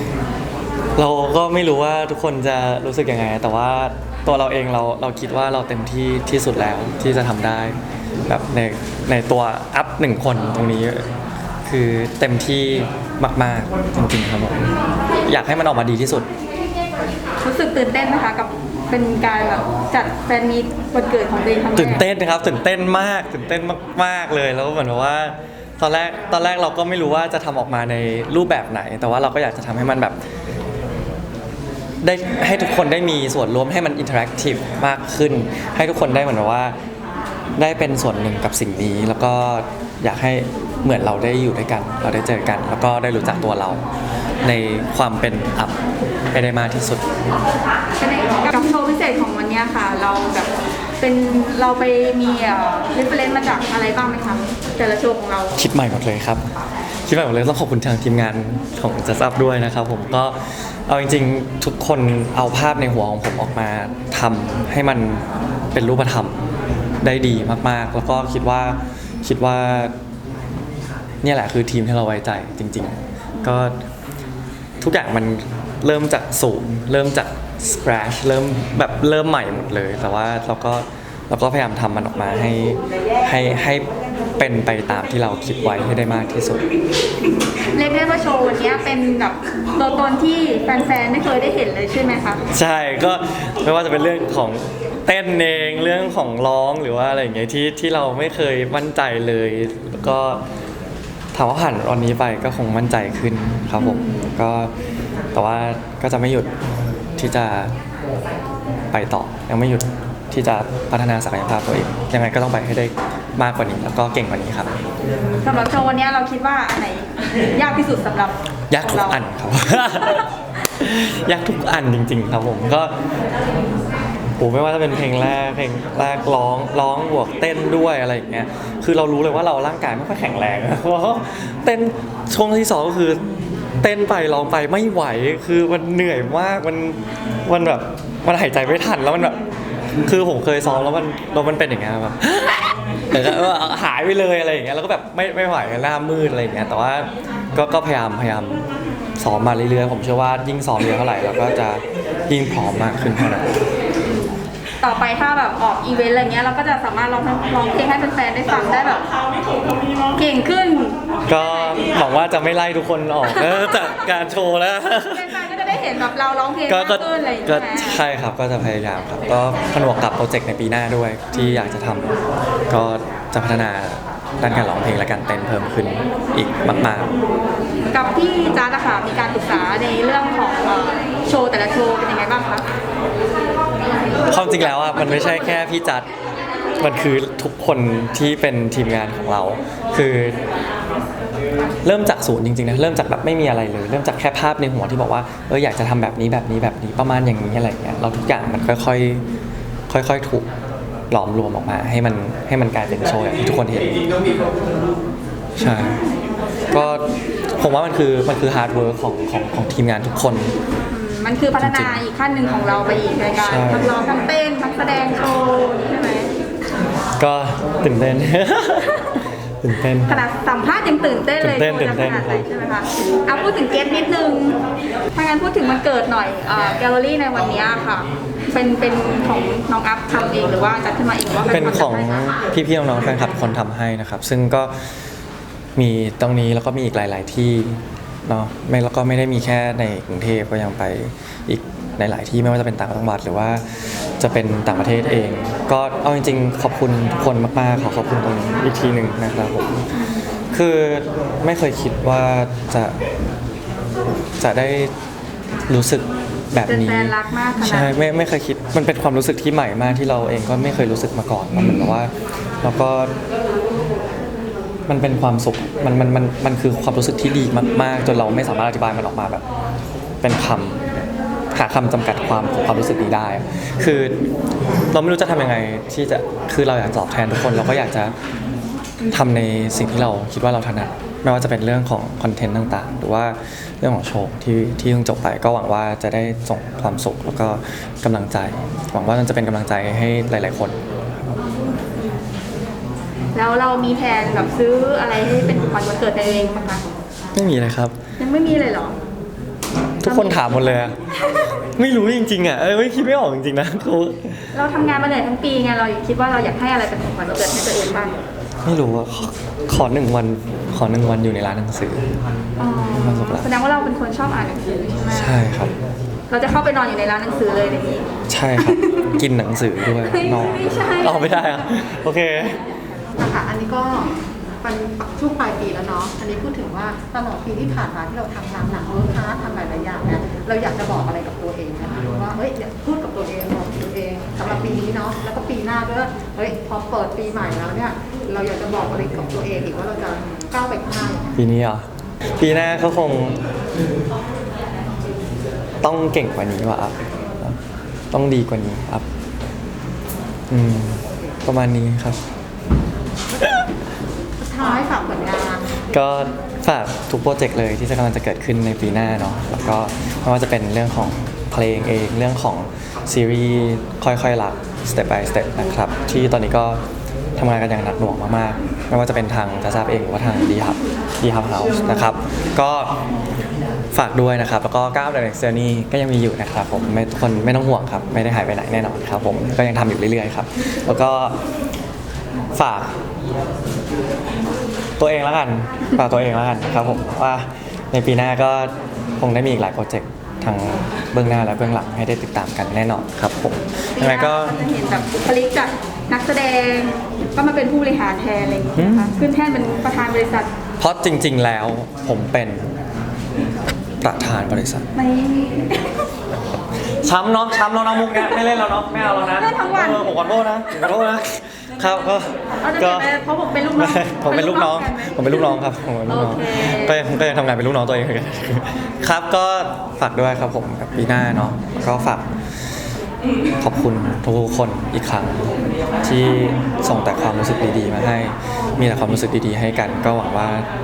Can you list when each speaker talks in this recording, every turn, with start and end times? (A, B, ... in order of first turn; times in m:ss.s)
0:01.0-0:07.8 A
0:08.3-0:11.0 A
0:11.6-0:14.7 A
0:15.2-0:16.3 A
0:17.4-0:22.0 B
0:21.7-0:30.2 A
0:32.0-0:36.7 A
0:37.6-0:43.8 A
0:44.4-0:45.8 A
0:46.3-0:47.1 A
0:48.0-0:55.6 B
0:55.5-0:56.4 A
0:57.0-1:06.4 A
1:07.0-1:09.9 A
1:11.2-1:13.8 A
1:13.3-1:13.7 B
1:14.8-1:26.6 A
1:27.7-1:32.4 B
1:32.5-1:40.4 A
1:41.3-1:44.7 A
1:43.8-1:44.3 B
1:45.3-1:46.5 A
1:47.2-1:47.7 A
1:48.9-1:54.7 A
1:55.4-1:59.2 B
1:58.7-2:02.9 A
2:04.4-2:13.2 A
2:13.8-2:19.4 A
2:20.0-2:28.6 A
2:29.2-2:33.5 A
2:34.1-2:39.1 B
2:40.1-2:41.0 B
2:41.3-2:45.4 A
2:43.3-2:44.0 B
2:45.0-2:48.0 B
2:46.7-2:52.2 A
2:52.7-2:57.1 A
2:57.8-3:02.7 B
3:04.2-3:06.1 A
3:06.8-3:10.4 A
3:11.8-3:19.2 A
3:19.9-3:20.5 A
3:21.1-3:24.4 A
3:25.6-3:26.0 A
3:26.7-3:30.5 A
3:30.9-3:36.3 B
3:31.6-3:32.0 A
3:33.4-3:33.9 A
3:37.2-3:40.2 A
3:40.0-3:44.6 B
3:41.4-3:42.4 A
3:45.1-3:52.4 B
3:51.5-3:54.9 A
3:55.8-4:09.8 A
4:10.0-4:10.2 B
4:10.5-4:13.0 A
4:14.4-4:14.9 A
4:15.7-4:23.1 A
4:16.6-4:18.0 B
4:24.9-4:29.4 A
4:30.2-4:30.8 A
4:31.5-4:34.2 A
4:34.9-4:38.1 A
4:39.0-4:50.8 A
4:53.3-4:56.8 B
4:57.3-4:57.9 A
4:58.2-4:59.0 B
5:00.0-5:01.0 A
5:00.0-5:01.4 B
5:01.8-5:04.5 A
5:04.5-5:08.2 B
5:08.6-5:12.1 A
5:12.6-5:15.4 B
5:12.9-5:13.5 A
5:15.1-5:15.7 A
5:16.3-5:18.1 B
5:18.3-5:22.6 A
5:18.6-5:19.2 B
5:19.9-5:21.6 B
5:23.2-5:24.0 C
5:24.6-5:41.3 C
5:41.3-5:41.8 A
5:42.4-5:43.4 A
5:45.8-5:47.6 A
5:48.1-5:49.0 A
5:50.5-5:52.2 A
5:54.4-5:55.5 C
5:55.8-6:06.8 A
6:07.4-6:13.0 A
6:13.9-6:21.4 A
6:22.5-6:22.9 A
6:25.0-6:34.6 A
6:33.9-6:40.5 B
6:38.8-6:39.1 A
6:40.8-6:42.7 A
6:44.0-6:44.8 A
6:44.9-6:46.1 B
6:46.9-6:53.1 A
6:49.3-6:50.1 B
6:52.6-6:55.5 B
6:53.7-7:02.3 A
6:56.1-6:57.0 B
7:03.6-7:10.7 A